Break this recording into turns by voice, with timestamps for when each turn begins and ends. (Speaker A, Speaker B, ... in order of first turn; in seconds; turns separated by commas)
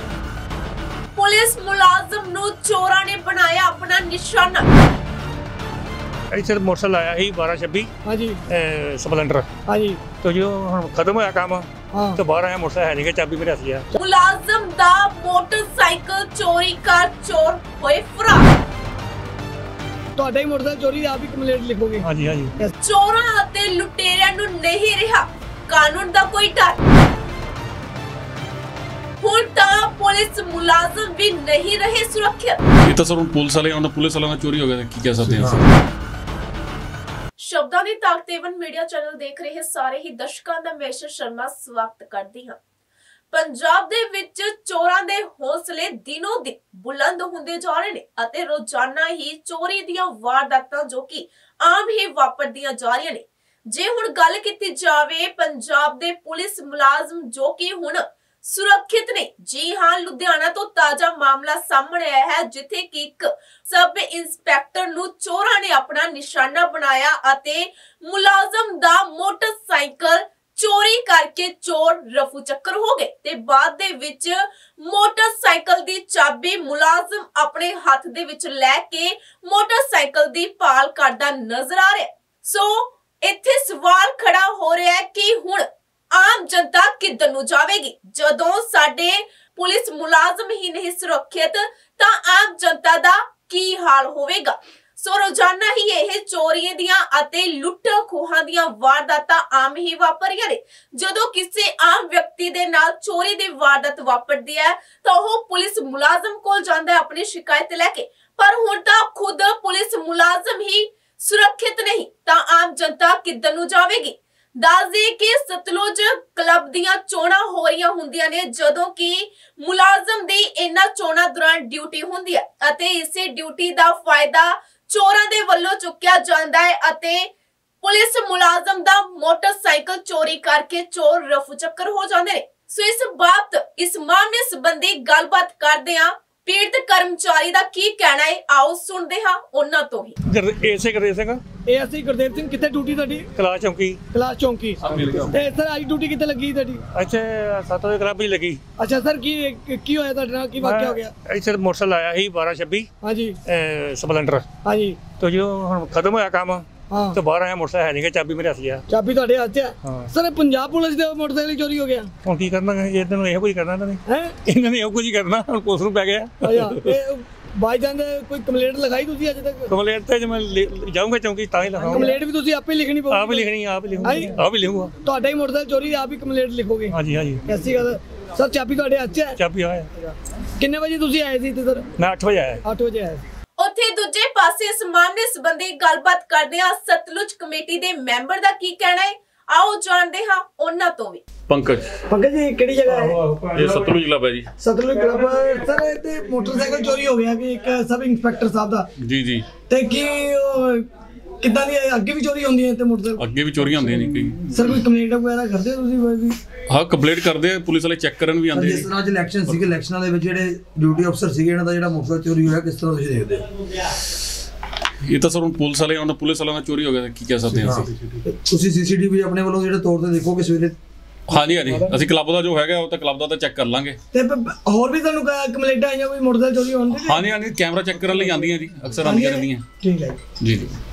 Speaker A: 1.1-4.7, Speaker B: 6.3-7.9, Speaker C: 8.1-8.4, Speaker B: 8.5-9.5, Speaker C: 9.7-10.0, Speaker B: 10.0-13.9, Speaker C: 11.9-12.2, Speaker A: 13.9-18.5, Speaker C: 20.2-22.1, Speaker B: 22.0-22.5, Speaker A: 22.8-26.8, Speaker A: 29.2-32.6, Speaker D: 32.8-35.7, Speaker A: 37.4-42.6, Speaker A: 43.3-127.3, Speaker A: 127.8-140.2, Speaker B: 140.3-141.4, Speaker C: 141.7-143.3, Speaker B: 143.3-144.0, Speaker C: 144.1-146.8, Speaker D: 144.8-145.3, Speaker B: 146.9-148.6, Speaker C: 148.8-151.1, Speaker B: 150.6-152.9, Speaker C: 153.0-153.4, Speaker B: 153.4-154.5, Speaker C: 154.6-155.0, Speaker B: 155.1-158.8, Speaker C: 156.9-157.2, Speaker C: 158.9-162.1, Speaker B: 159.8-160.1, Speaker B: 162.2-167.0, Speaker C: 164.1-164.4, Speaker C: 166.4-169.7, Speaker B: 169.7-172.2, Speaker C: 171.8-173.5, Speaker B: 173.1-174.9, Speaker C: 174.0-174.3, Speaker C: 175.0-179.4, Speaker B: 176.9-177.4, Speaker B: 179.4-179.9, Speaker C: 180.6-181.9, Speaker B: 182.0-182.6, Speaker C: 182.6-183.2, Speaker A: 183.6-191.2, Speaker D: 191.5-192.0, Speaker C: 192.1-193.3, Speaker D: 193.4-194.5, Speaker C: 194.6-198.9, Speaker D: 199.0-199.5, Speaker C: 199.7-200.9, Speaker C: 201.4-203.2, Speaker D: 203.2-204.8, Speaker C: 204.5-206.4, Speaker D: 206.7-208.9, Speaker E: 208.5-213.5, Speaker D: 215.0-218.0, Speaker E: 217.6-220.8, Speaker D: 221.3-224.0, Speaker C: 224.1-227.3, Speaker D: 226.9-229.6, Speaker C: 229.0-230.2, Speaker D: 230.4-230.8